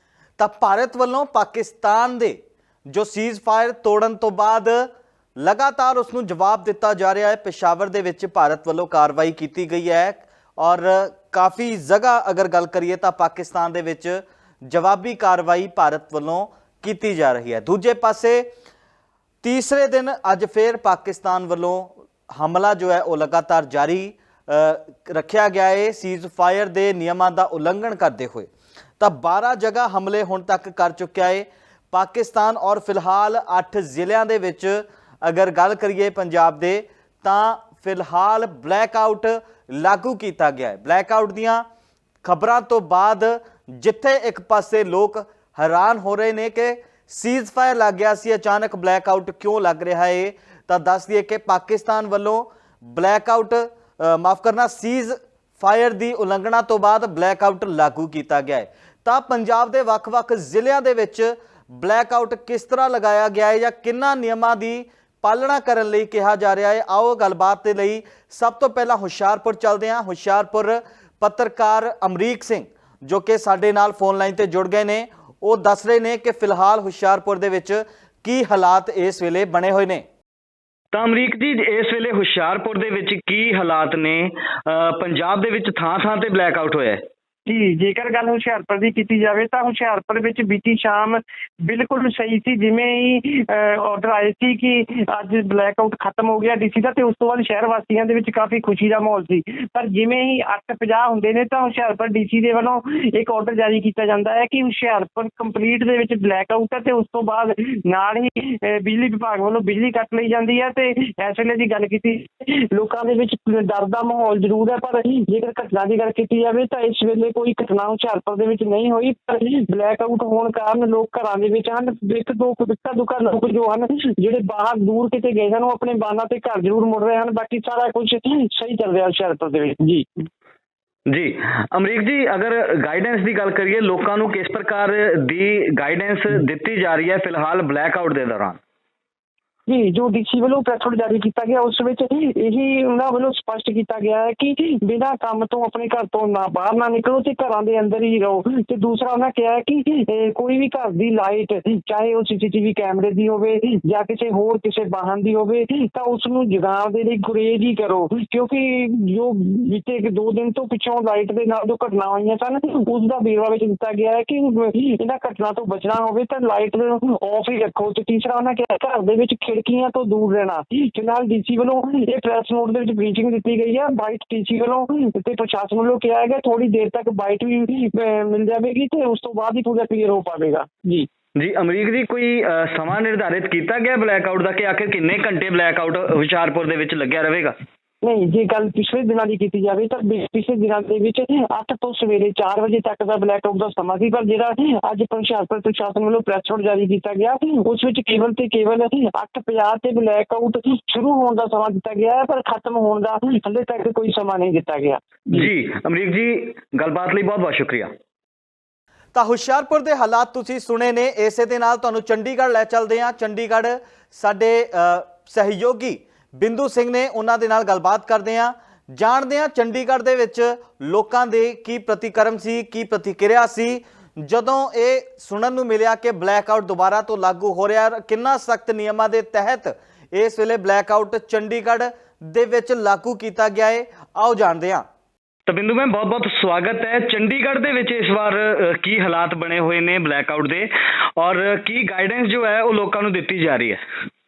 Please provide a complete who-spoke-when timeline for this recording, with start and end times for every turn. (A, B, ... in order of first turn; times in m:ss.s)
0:00.4-0:02.4 A
0:02.9-0:18.4 A
0:19.4-0:41.6 A
0:42.2-1:20.0 A
1:20.9-1:27.0 B
1:27.4-2:10.1 C
2:11.1-2:18.6 B
2:19.7-3:01.1 C
3:01.4-3:07.6 B
3:08.0-3:25.0 C
3:25.3-3:27.9 B
3:29.1-3:54.8 A
3:55.5-4:03.8 B